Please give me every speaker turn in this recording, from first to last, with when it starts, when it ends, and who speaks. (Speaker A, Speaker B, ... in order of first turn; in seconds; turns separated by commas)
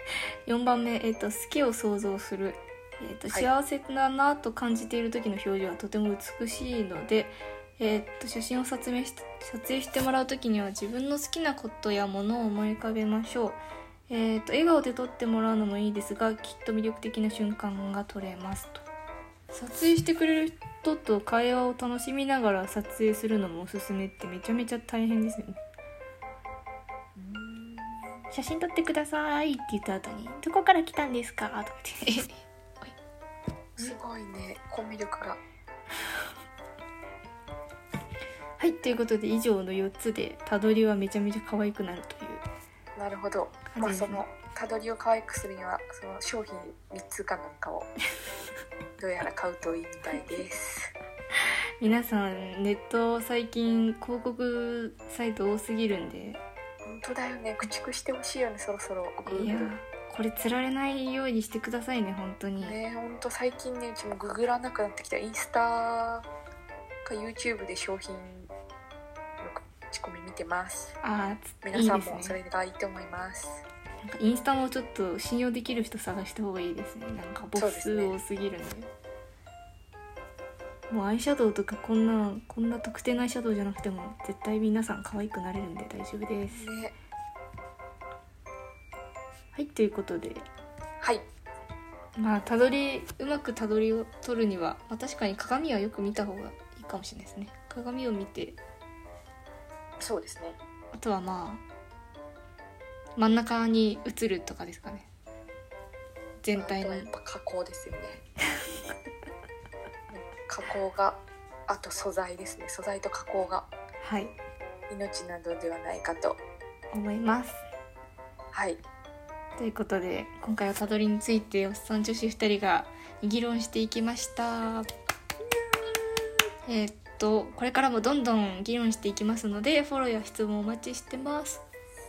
Speaker A: 0.5-18.8, Speaker A: 19.5-25.6, Speaker B: 27.2-28.2, Speaker A: 28.3-33.0, Speaker B: 33.8-35.4, Speaker A: 38.6-42.5, Speaker B: 43.0-47.9, Speaker A: 43.7-44.2, Speaker B: 49.0-50.9, Speaker A: 51.8-56.4, Speaker B: 56.9-59.7, Speaker A: 59.3-62.8, Speaker B: 62.6-66.3, Speaker B: 67.0-68.5, Speaker B: 69.4-71.0, Speaker A: 71.0-72.4, Speaker B: 71.6-73.6, Speaker A: 74.0-78.9, Speaker B: 77.6-78.2, Speaker A: 80.9-86.7, Speaker B: 86.5-87.0, Speaker A: 89.5-90.5, Speaker A: 92.2-98.6, Speaker B: 100.0-100.6, Speaker A: 100.9-101.6, Speaker A: 103.2-105.1, Speaker A: 106.4-107.1, Speaker B: 106.5-108.2, Speaker B: 110.1-113.7, Speaker A: 114.0-114.3, Speaker B: 114.9-116.4, Speaker A: 116.9-117.6, Speaker B: 118.5-118.8, Speaker A: 119.6-124.9, Speaker B: 125.4-126.4, Speaker A: 126.7-131.6